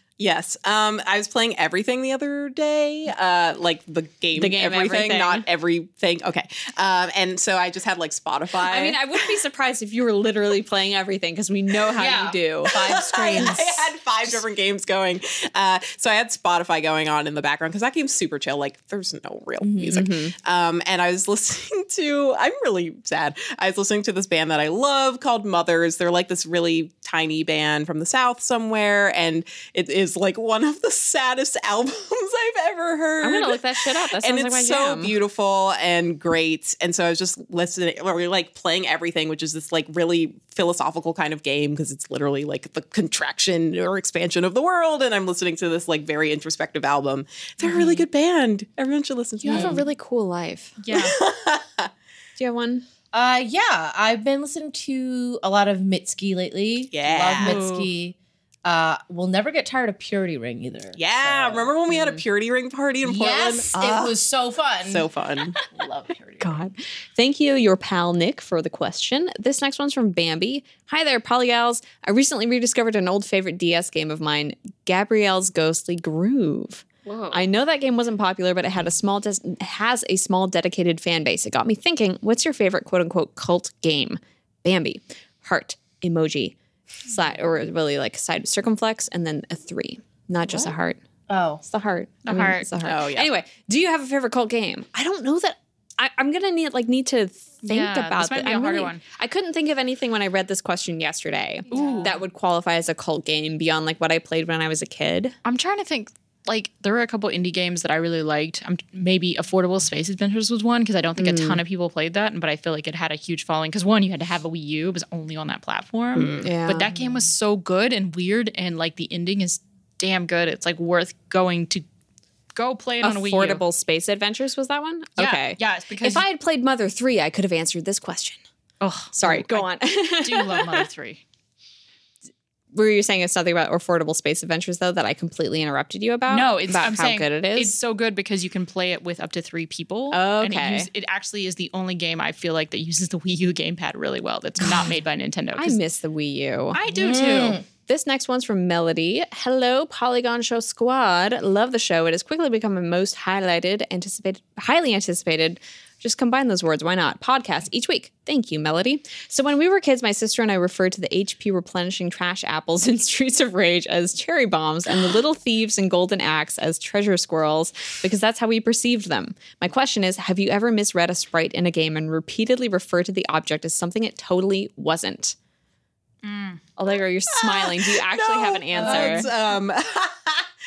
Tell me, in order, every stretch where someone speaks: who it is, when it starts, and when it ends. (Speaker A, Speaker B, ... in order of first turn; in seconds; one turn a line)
Speaker A: 0.2-9.3
Speaker B: 4.3-5.5
Speaker B: 8.6-13.6
Speaker C: 12.0-13.8
Speaker A: 12.7-49.8
Speaker C: 19.6-20.0
Speaker B: 19.9-20.3
Speaker B: 33.2-35.1
Speaker B: 49.4-50.8
Speaker C: 49.5-49.8
Speaker D: 50.8-51.2
Speaker A: 50.9-51.9
Speaker B: 52.4-52.8
Speaker C: 53.1-61.7
Speaker A: 56.9-57.6
Speaker D: 57.4-57.9
Speaker A: 61.0-64.1
Speaker C: 63.0-65.1
Speaker A: 64.8-65.6
Speaker C: 65.6-66.6
Speaker B: 66.4-91.0
Speaker C: 91.3-91.6
Speaker B: 91.6-105.3
Speaker D: 92.2-92.7
Speaker A: 92.8-93.3
Speaker D: 97.6-99.0
Speaker D: 101.7-102.2
Speaker C: 101.7-102.2
Speaker D: 105.4-121.8
Speaker B: 111.2-111.6
Speaker A: 116.2-116.5
Speaker B: 116.4-116.9
Speaker D: 122.5-123.6
Speaker B: 123.0-128.4
Speaker D: 125.2-126.2
Speaker D: 128.8-129.7
Speaker B: 129.1-130.9
Speaker D: 130.2-131.2
Speaker B: 132.7-137.8
Speaker D: 136.3-145.8
Speaker B: 140.1-140.9
Speaker B: 145.6-146.8
Speaker D: 146.7-147.6
Speaker C: 146.9-147.6
Speaker B: 147.8-175.3
Speaker D: 176.2-176.6
Speaker B: 176.8-179.3
Speaker A: 177.3-180.5
Speaker C: 178.8-179.3